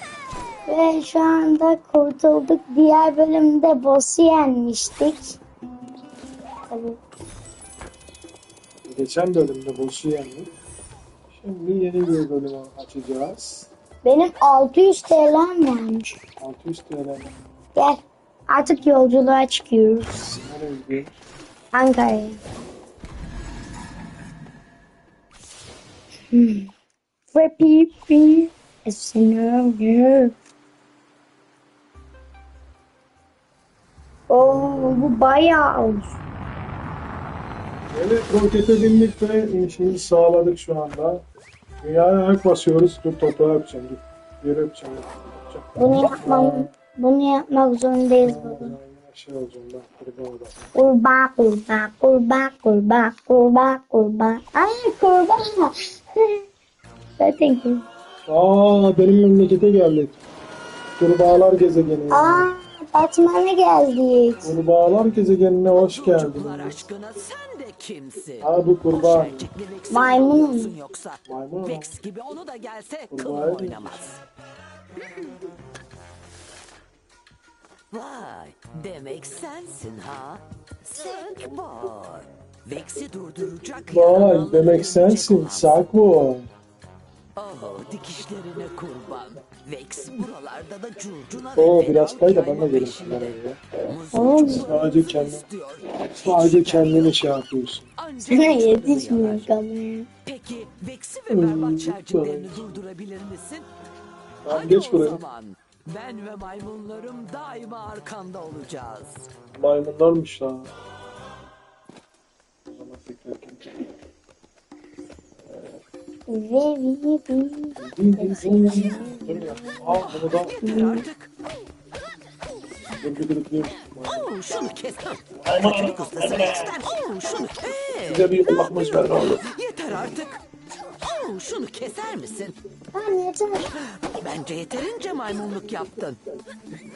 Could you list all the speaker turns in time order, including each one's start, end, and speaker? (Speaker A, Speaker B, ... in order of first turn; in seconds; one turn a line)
Speaker A: 0.7-5.4
Speaker A: 6.7-7.0
Speaker B: 8.9-10.5
Speaker B: 11.3-13.7
Speaker A: 14.0-16.1
Speaker B: 16.4-17.3
Speaker A: 17.8-20.4
Speaker B: 20.4-21.1
Speaker A: 21.7-22.4
Speaker A: 26.3-26.7
Speaker A: 27.3-30.3
Speaker A: 34.3-36.1
Speaker B: 34.4-35.2
Speaker B: 37.9-41.2
Speaker B: 41.8-46.7
Speaker A: 45.8-48.8
Speaker B: 48.2-50.6
Speaker A: 50.8-56.4
Speaker A: 57.2-57.8
Speaker B: 58.3-60.2
Speaker B: 61.0-62.5
Speaker A: 62.1-64.5
Speaker B: 64.4-66.8
Speaker C: 65.7-74.2
Speaker B: 68.4-69.5
Speaker A: 69.9-70.7
Speaker B: 71.3-71.9
Speaker B: 73.1-74.0
Speaker C: 77.9-85.8
Speaker B: 83.9-86.5
Speaker C: 87.4-97.2
Speaker B: 91.5-93.6
Speaker A: 94.1-94.7
Speaker B: 94.6-95.5
Speaker B: 96.1-97.9
Speaker C: 98.0-99.5
Speaker A: 98.2-100.1
Speaker C: 100.3-103.7
Speaker B: 101.3-102.7
Speaker B: 104.5-105.2
Speaker C: 104.5-109.3
Speaker B: 109.5-110.7
Speaker B: 112.7-113.8
Speaker A: 116.3-119.9
Speaker B: 117.8-120.6
Speaker C: 120.0-121.3
Speaker A: 120.6-121.1
Speaker B: 123.0-124.3
Speaker C: 124.1-128.2
Speaker B: 125.4-126.8
Speaker B: 128.1-129.5
Speaker C: 129.3-130.4
Speaker C: 131.0-132.6
Speaker A: 132.9-133.7
Speaker C: 134.0-136.2